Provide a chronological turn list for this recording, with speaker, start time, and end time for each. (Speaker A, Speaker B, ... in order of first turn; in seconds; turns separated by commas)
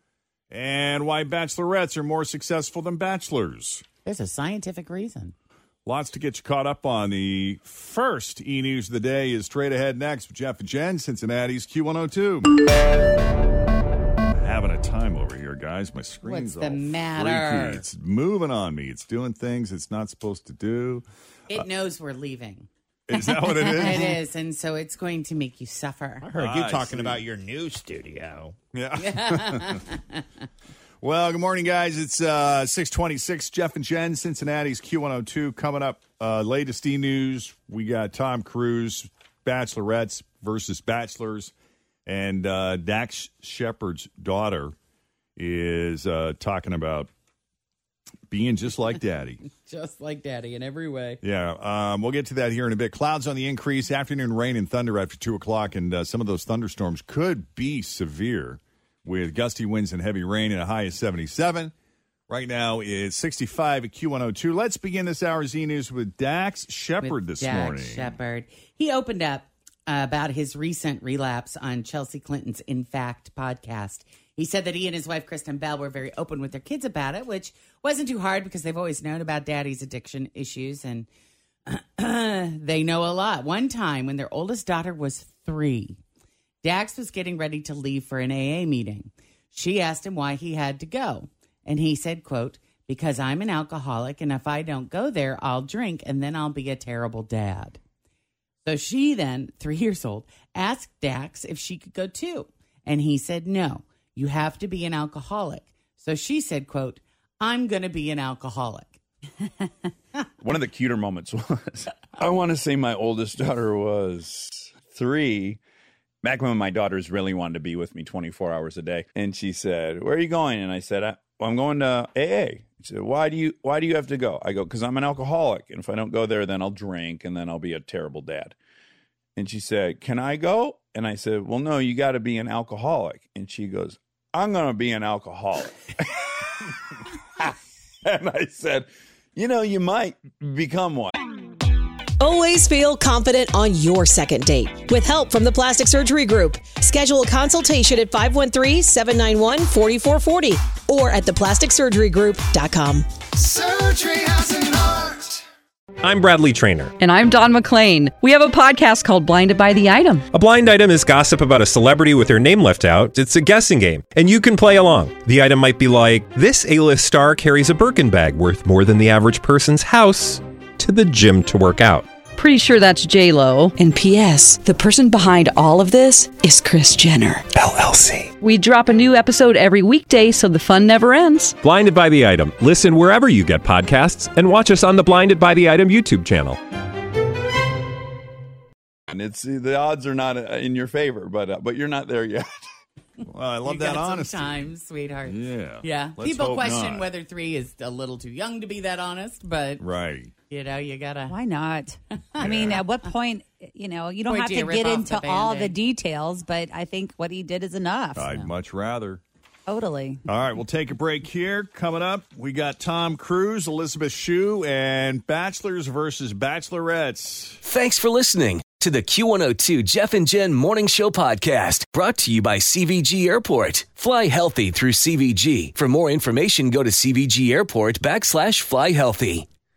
Speaker A: 0.5-3.8, Speaker B: 4.0-5.3, Speaker A: 5.8-12.5, Speaker A: 14.3-21.6, Speaker B: 16.2-17.8, Speaker B: 21.5-22.7, Speaker A: 23.1-24.1, Speaker B: 23.2-26.3, Speaker C: 26.2-28.5, Speaker A: 26.3-27.2, Speaker A: 28.7-29.8, Speaker B: 29.0-30.0, Speaker A: 31.0-41.5, Speaker A: 42.0-44.7, Speaker A: 45.4-47.1, Speaker A: 48.3-49.4, Speaker B: 49.6-51.2, Speaker A: 51.2-61.7, Speaker A: 62.3-68.1, Speaker B: 67.0-81.1, Speaker B: 81.7-86.0, Speaker B: 86.6-97.8, Speaker B: 98.6-109.0, Speaker D: 110.4-115.6, Speaker D: 116.2-128.5, Speaker D: 129.3-136.7, Speaker D: 138.0-141.1, Speaker E: 142.2-153.7, Speaker F: 156.0-156.9, Speaker G: 157.0-160.3, Speaker F: 160.3-172.1, Speaker G: 172.4-177.4, Speaker G: 178.4-181.6, Speaker F: 181.6-186.6, Speaker D: 189.1-192.5, Speaker A: 193.3-194.6, Speaker B: 193.6-199.8, Speaker A: 195.2-197.1, Speaker A: 199.8-200.3, Speaker B: 200.5-201.4, Speaker H: 201.3-202.0, Speaker B: 202.3-202.9, Speaker A: 202.4-202.8, Speaker H: 202.6-208.3, Speaker B: 204.2-205.8, Speaker A: 208.2-209.2, Speaker B: 208.3-208.5, Speaker H: 209.7-210.2, Speaker A: 210.2-217.6, Speaker I: 217.6-229.4